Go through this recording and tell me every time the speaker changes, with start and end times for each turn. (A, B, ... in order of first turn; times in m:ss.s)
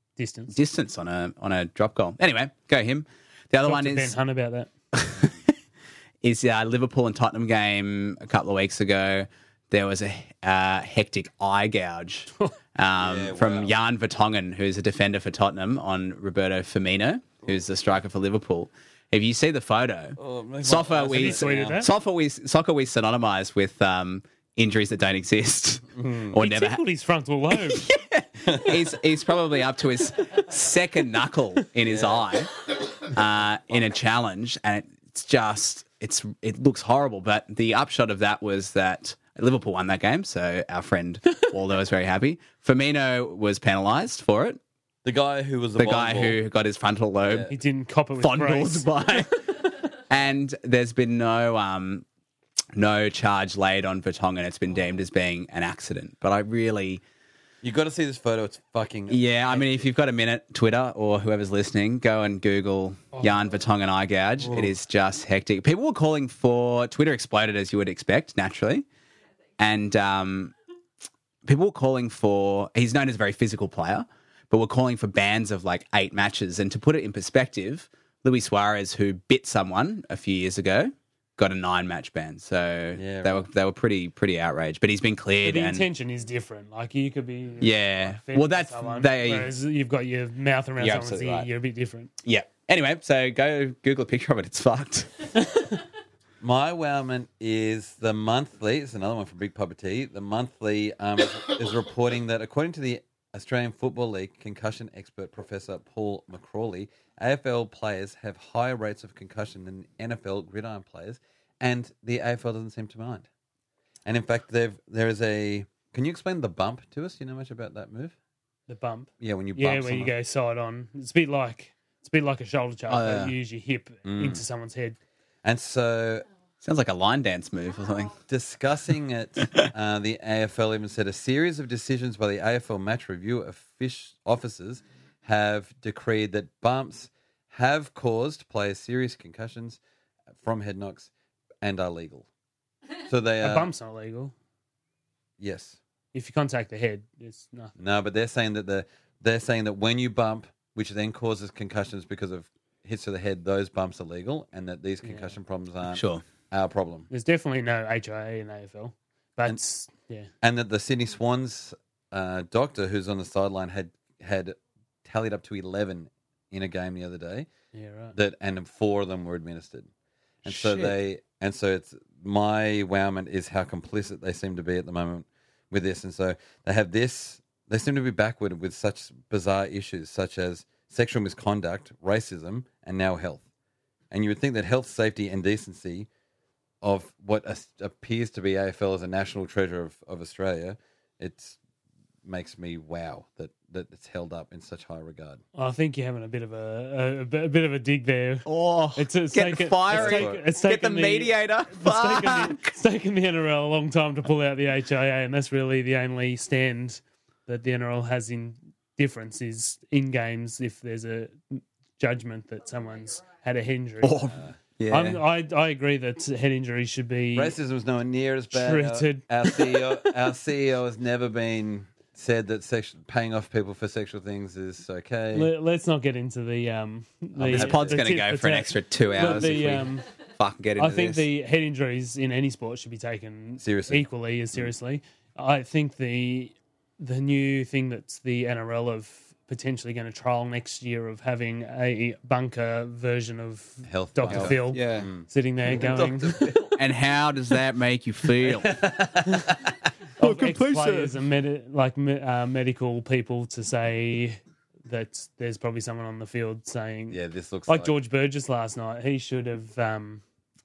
0:00.2-0:00.6 A
0:00.5-0:04.2 B
0:03.6-0:04.7 A
0:04.9-0:05.5 B
0:06.2-0:26.8 B
0:13.0-0:13.7 C
0:20.2-0:21.8 C
0:21.1-0:21.9 A
0:26.0-0:26.4 C
0:26.4-0:27.9 A
0:27.5-0:44.6 B
0:31.9-0:32.2 C
0:45.0-0:46.4 C
0:45.8-0:47.5 B
0:47.2-0:47.5 C
0:47.5-0:49.3 A
0:48.2-0:49.4 B
0:50.1-0:52.0 B
0:52.7-0:57.0 B
0:57.6-0:59.9 C
0:59.1-1:08.8 B
1:03.2-1:03.5 A
1:04.4-1:04.7 C
1:09.6-1:10.5 B
1:11.4-1:25.9 B
1:23.0-1:23.5 C
1:25.4-1:32.1 A
1:27.6-1:29.5 B
1:30.8-1:31.5 B
1:32.2-1:35.3 B
1:35.4-1:35.8 A
1:36.4-1:53.3 C
1:54.1-1:58.1 C
1:58.7-2:05.0 A
1:59.2-2:00.1 C
2:02.9-2:03.3 B
2:04.0-2:04.4 C
2:05.4-2:06.3 C
2:06.6-2:08.2 B
2:08.3-2:19.8 C
2:20.4-2:21.1 C
2:21.6-2:22.3 C
2:23.1-2:23.7 C
2:23.4-2:24.3 A
2:25.4-2:25.8 C
2:26.1-2:27.7 A
2:27.8-2:37.1 C
2:35.0-2:35.4 A
2:35.9-2:36.2 B
2:37.1-2:40.3 A
2:40.4-2:47.5 C
2:47.7-2:48.2 A
2:48.1-2:49.9 C
2:50.4-2:51.0 B
2:50.4-3:03.4 C
3:04.1-3:06.1 C
3:06.8-3:11.6 C
3:12.2-3:15.4 C
3:15.6-3:31.4 A
3:18.5-3:22.6 B
3:19.9-3:20.4 C
3:32.0-3:34.3 A
3:34.0-3:35.2 B
3:34.3-3:34.6 C
3:34.9-3:37.6 A
3:37.4-3:45.5 C
3:38.5-3:39.9 A
3:45.3-3:50.1 A
3:47.4-3:48.0 C
3:47.5-3:51.2 B
3:50.8-4:06.6 A
3:53.6-3:54.7 C
4:03.8-4:06.8 C
4:04.3-4:05.1 B
4:06.8-4:08.7 B
4:08.4-4:09.6 C
4:10.2-4:20.2 A
4:10.2-4:11.2 B
4:17.1-4:17.9 C